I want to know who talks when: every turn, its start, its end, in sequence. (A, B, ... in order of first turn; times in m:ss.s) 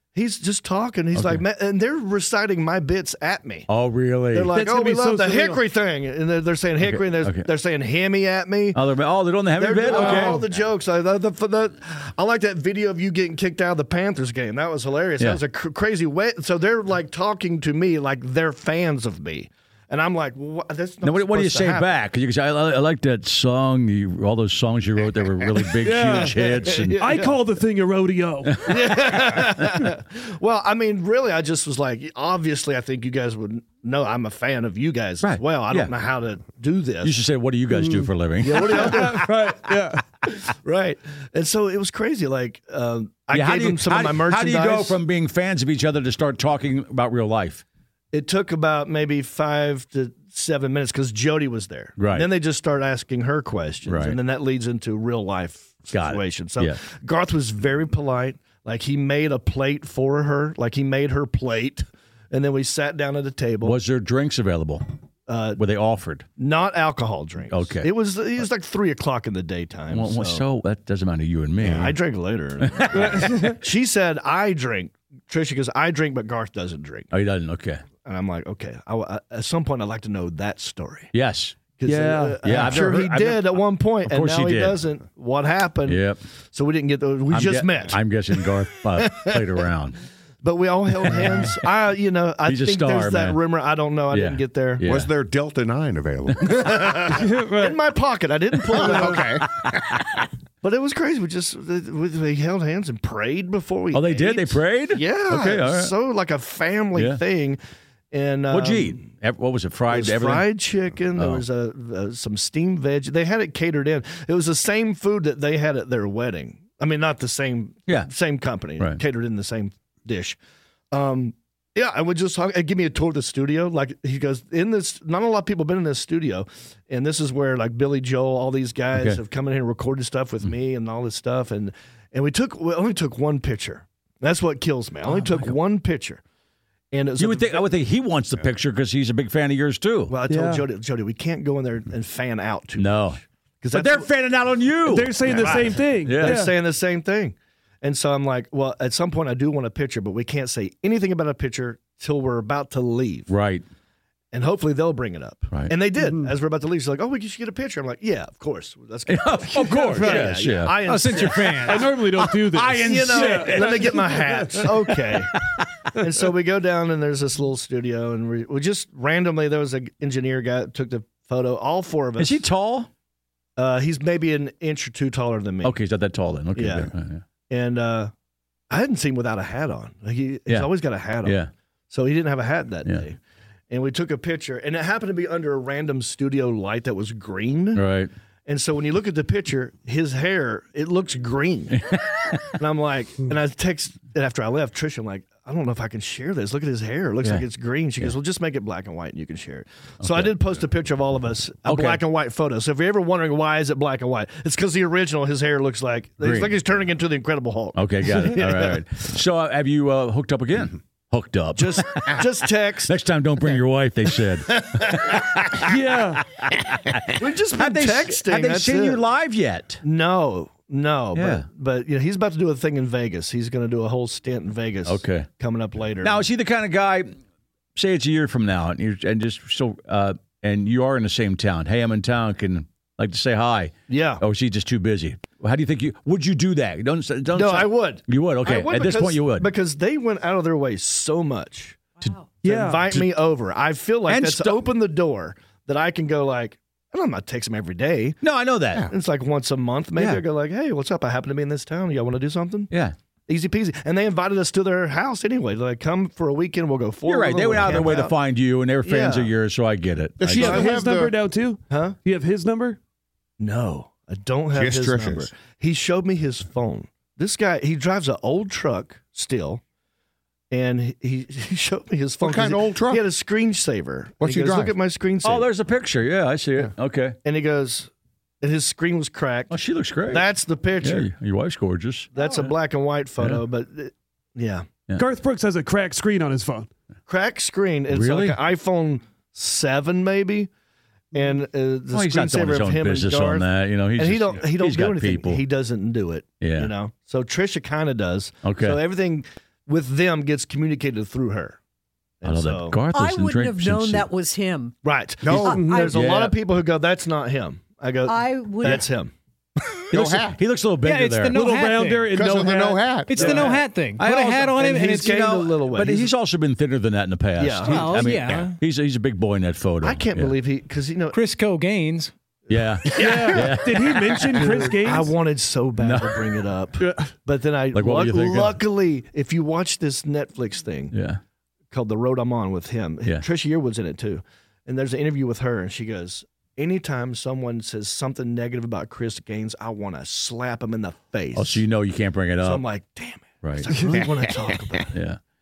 0:00.1-0:03.7 A
0:01.1-0:01.4 B
0:03.7-0:04.5 B
0:04.3-0:08.8 A
0:04.5-0:05.6 C
0:06.8-0:07.4 B
0:08.7-0:10.4 B
0:09.5-0:21.9 A
0:09.9-0:10.4 C
0:21.0-0:27.4 B
0:25.8-0:28.6 C
0:26.0-0:27.4 A
0:28.4-0:29.4 B
0:28.7-0:37.2 A
0:35.2-0:35.9 B
0:37.0-0:39.0 B
0:37.7-0:40.0 C
0:38.4-0:39.4 A
0:40.5-0:45.0 A
0:43.3-0:47.6 B
0:48.1-1:03.8 A
0:52.0-0:52.3 B
0:53.8-0:54.2 B
0:55.9-0:56.8 B
1:03.6-1:04.8 B
1:05.3-1:05.6 A
1:05.6-1:06.2 B
1:06.4-1:10.4 A
1:07.5-1:07.9 B
1:09.9-1:11.9 B
1:11.6-1:17.1 A
1:12.7-1:13.5 B
1:12.9-1:13.6 C
1:17.1-1:17.8 B
1:18.0-1:21.1 A
1:21.1-1:21.6 B
1:21.8-1:28.5 A
1:21.8-1:22.4 C
1:22.4-1:24.8 B
1:25.8-1:26.2 B
1:27.3-1:30.0 B
1:29.0-1:29.4 A
1:30.4-1:34.8 A
1:32.4-1:33.4 B
1:34.1-1:35.1 B
1:34.8-1:37.0 D
1:36.6-1:39.2 A
1:37.1-1:37.7 C
1:38.7-1:39.8 D
1:38.8-1:39.6 B
1:40.6-1:47.6 A
1:43.9-1:45.9 B
1:46.9-1:47.2 B
1:48.1-1:49.1 A
1:48.5-1:50.5 B
1:49.9-2:00.4 A
1:51.2-1:51.4 B
2:00.9-2:16.2 A
2:15.0-2:15.6 B
2:16.9-2:17.7 A
2:17.2-2:20.1 B
2:20.1-2:24.1 A
2:20.3-2:20.6 C
2:22.8-2:23.2 B
2:23.7-2:26.4 B
2:24.8-2:26.5 C
2:25.2-2:33.3 A
2:33.3-2:33.6 B
2:34.3-2:41.9 A
2:36.0-2:36.3 C
2:39.1-2:41.4 B
2:39.7-2:40.5 C
2:40.8-2:41.9 E
2:41.1-2:44.6 C
2:41.9-2:45.6 B
2:42.8-2:45.3 A
2:45.9-2:52.4 A
2:52.2-2:52.9 B
2:53.6-2:55.8 A
2:55.6-2:57.2 B
2:56.5-2:56.9 A
2:57.5-2:58.1 A
2:58.7-3:03.2 A
3:00.5-3:01.5 B
3:03.7-3:07.8 A
3:07.7-3:08.1 B
3:08.4-3:11.8 A
3:11.9-3:12.5 B
3:12.6-3:28.8 A
3:20.0-3:20.4 B
3:21.6-3:22.0 B
3:26.2-3:26.5 B
3:27.7-3:32.3 B
3:31.5-3:32.9 A
3:32.9-3:39.8 B
3:34.5-3:35.2 A
3:35.7-3:36.2 C
3:37.2-3:39.0 A
3:39.8-3:46.2 A
3:41.1-3:41.4 B
3:44.8-3:45.3 B
3:46.0-3:47.1 B
3:47.8-3:59.5 B
3:53.9-3:54.2 A
3:57.3-4:01.8 A
4:02.4-4:03.0 C
4:02.4-4:08.2 A
4:04.1-4:04.6 B
4:08.2-4:08.9 B
4:08.9-4:12.7 A
4:10.0-4:10.2 B
4:13.3-4:18.2 A
4:17.0-4:20.7 B
4:18.8-4:19.3 A
4:20.2-4:21.1 D
4:20.3-4:22.8 C
4:21.7-4:22.0 A
4:23.4-4:29.6 A
4:24.5-4:25.3 D
4:30.5-4:35.5 A
4:32.2-4:33.0 D
4:34.2-4:34.7 D
4:35.2-4:37.2 B
4:37.2-4:39.5 A
4:39.5-4:40.2 B
4:40.0-4:41.1 A
4:40.8-4:42.5 B
4:42.1-4:44.7 A
4:45.0-4:46.7 C
4:47.1-4:50.5 A
4:47.9-4:48.4 B
4:51.1-5:01.6 A
4:51.9-4:55.4 B
4:56.4-4:56.7 B
4:58.4-4:58.8 B
5:02.2-5:02.8 A
5:02.2-5:04.1 B
5:02.9-5:06.2 F
5:04.8-5:09.1 A
5:05.2-5:05.6 D
5:05.5-5:05.9 C
5:05.8-5:06.3 B
5:08.0-5:08.8 F
5:09.9-5:10.4 D
5:09.9-5:11.4 B
5:10.8-5:12.0 E
5:11.3-5:13.6 C
5:12.1-5:13.2 D
5:13.1-5:15.2 E
5:13.1-5:13.6 A
5:14.0-5:20.3 B
5:14.6-5:16.1 A
5:17.4-5:18.1 A
5:17.7-5:18.6 E
5:19.8-5:21.2 A
5:21.1-5:22.1 E
5:22.5-5:24.5 B
5:22.9-5:23.6 A
5:22.9-5:25.2 C
5:24.3-5:30.9 A
5:25.8-5:26.2 B
5:26.8-5:27.1 C
5:27.7-5:28.6 B
5:30.9-5:31.2 B
5:31.7-5:41.6 A
5:41.3-5:42.6 B
5:42.4-5:44.9 A
5:43.4-5:43.7 B
5:43.7-5:44.0 C
5:44.9-5:45.2 B